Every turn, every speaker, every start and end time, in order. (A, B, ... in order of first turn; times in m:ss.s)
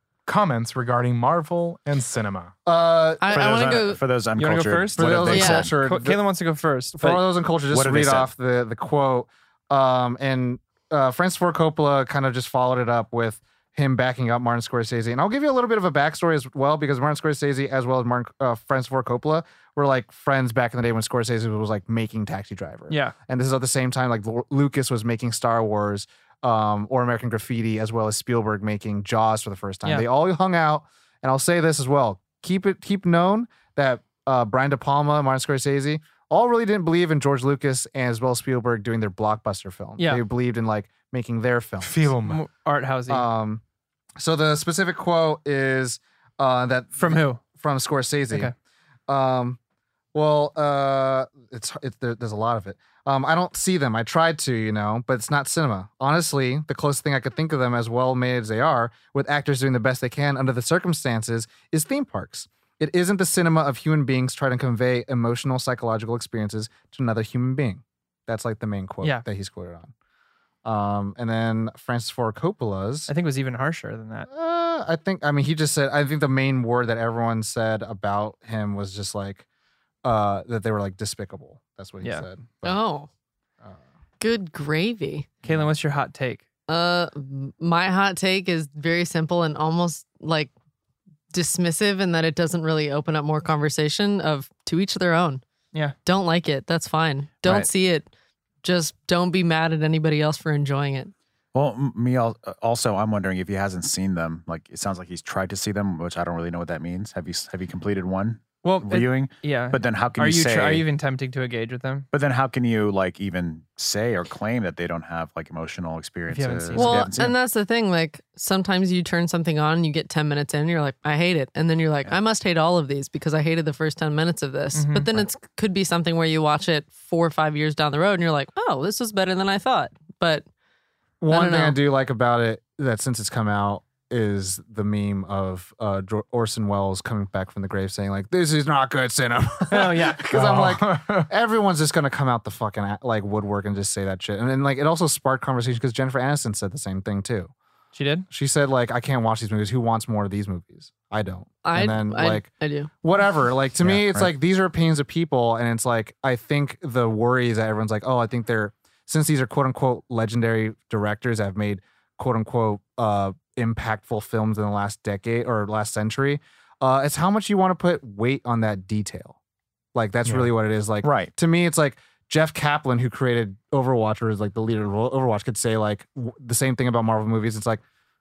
0:00.3-0:02.6 A
0:02.7-0:03.8 B
0:03.2-0:04.0 C
0:03.3-0:05.7 D
0:04.4-0:07.2 E
0:05.0-0:06.2 B
0:05.3-0:05.7 C
0:07.0-0:42.2 B
0:07.7-0:08.3 D
0:22.9-0:23.2 E
0:40.0-0:40.2 E
0:41.8-0:42.4 A
0:42.2-0:43.3 E
0:43.1-0:43.6 B
0:44.2-0:48.5 B
0:47.0-0:47.4 E
0:49.1-0:49.6 B
0:50.1-1:09.9 B
1:10.6-1:13.1 B
1:13.1-1:14.3 E
1:14.3-1:19.4 B
1:20.0-1:22.8 B
1:22.6-1:23.1 C
1:24.2-1:25.3 C
1:25.4-1:26.4 E
1:26.7-1:30.5 C
1:31.3-1:35.4 C
1:36.0-1:38.1 C
1:38.6-1:41.1 C
1:41.5-1:50.8 D
1:48.6-1:52.1 E
1:52.1-1:57.3 D
1:56.3-1:57.1 E
1:56.8-2:10.5 C
2:04.7-2:05.2 E
2:11.2-2:27.5 B
2:11.3-2:11.8 C
2:19.7-2:20.3 E
2:20.3-2:21.3 A
2:27.9-2:28.3 E
2:28.3-2:32.5 B
2:31.6-2:32.9 C
2:33.0-2:49.4 B
2:33.8-2:34.3 D
2:49.9-2:57.8 B
2:50.3-2:50.5 A
2:51.0-2:51.3 D